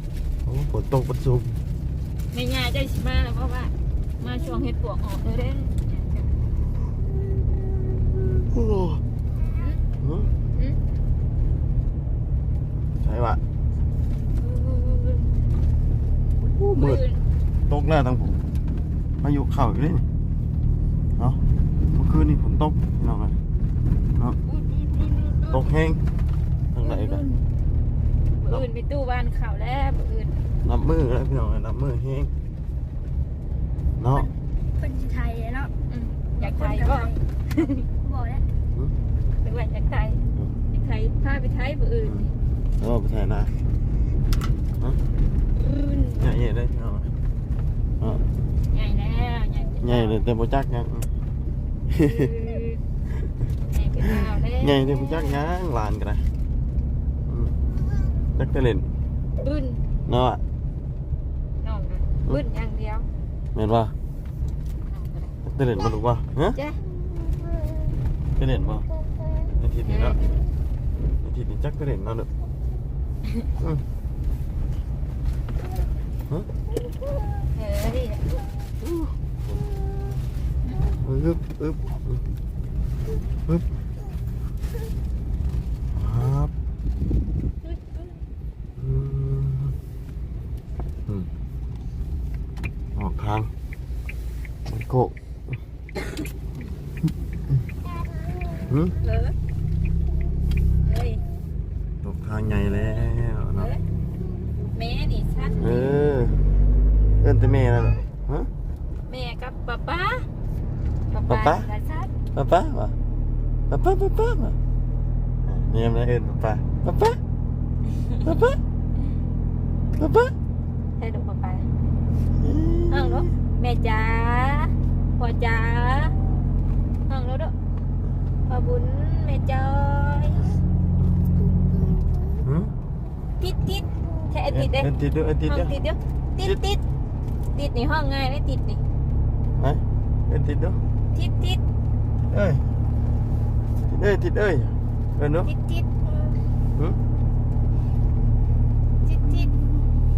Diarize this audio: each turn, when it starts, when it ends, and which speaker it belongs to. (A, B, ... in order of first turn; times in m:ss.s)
0:00.4-0:01.6 A
0:02.3-0:06.3 B
0:08.4-0:09.0 A
0:10.0-0:10.3 A
0:13.0-0:13.4 A
0:14.4-0:15.5 B
0:16.4-0:17.0 A
0:16.7-0:17.2 B
0:17.7-0:18.4 A
0:19.2-0:20.0 A
0:21.9-0:23.4 A
0:24.5-0:25.6 B
0:25.5-0:26.0 A
0:26.7-0:27.2 A
0:26.8-0:27.4 B
0:28.4-0:30.4 B
0:30.6-0:32.3 A
0:34.0-0:34.3 A
0:34.1-0:35.7 C
0:35.9-0:37.8 B
0:36.4-0:37.2 C
0:37.9-0:38.4 C
0:39.4-0:42.3 B
0:42.8-0:43.5 A
0:45.6-0:46.3 B
0:46.2-0:47.1 A
0:48.7-0:50.2 B
0:49.8-0:51.1 A
0:51.9-0:52.3 A
0:52.0-0:52.8 B
0:53.7-0:55.4 B
0:54.1-0:56.3 A
0:57.3-0:57.6 A
0:58.4-0:58.9 A
0:59.4-0:59.8 B
1:00.1-1:00.4 A
1:01.6-1:03.1 B
1:03.6-1:03.9 A
1:04.9-1:05.4 B
1:05.4-1:06.6 A
1:06.6-1:06.8 B
1:08.4-1:08.9 A
1:09.6-1:10.2 A
1:09.9-1:10.3 B
1:11.2-1:12.3 A
1:13.6-1:13.8 A
1:17.5-1:18.4 B
1:18.8-1:19.6 A
1:21.0-1:22.2 A
1:26.0-1:26.5 A
1:28.8-1:29.8 A
1:33.0-1:33.5 A
1:34.7-1:35.6 A
1:38.7-1:38.9 A
1:39.0-1:39.4 B
1:40.8-1:41.2 B
1:42.0-1:43.7 A
1:43.6-1:43.8 B
1:44.8-1:46.0 B
1:45.6-1:46.4 A
1:47.2-1:48.5 A
1:49.1-1:50.3 B
1:51.1-1:52.1 B
1:51.3-1:51.7 A
1:52.3-1:53.0 A
1:53.7-1:54.6 A
1:55.4-1:57.2 A
1:58.0-1:58.4 B
1:58.2-1:58.6 A
2:00.0-2:00.3 A
2:01.0-2:01.7 B
2:02.4-2:03.3 A
2:02.9-2:06.1 B
2:07.1-2:07.5 B
2:08.5-2:10.5 B
2:12.4-2:12.7 A
2:13.4-2:14.9 B
2:14.5-2:15.7 A
2:15.4-2:16.8 B
2:17.5-2:18.8 B
2:19.6-2:20.8 A
2:21.2-2:21.6 B
2:22.3-2:22.6 A
2:23.9-2:25.5 A
2:25.4-2:26.4 B
2:29.0-2:29.5 B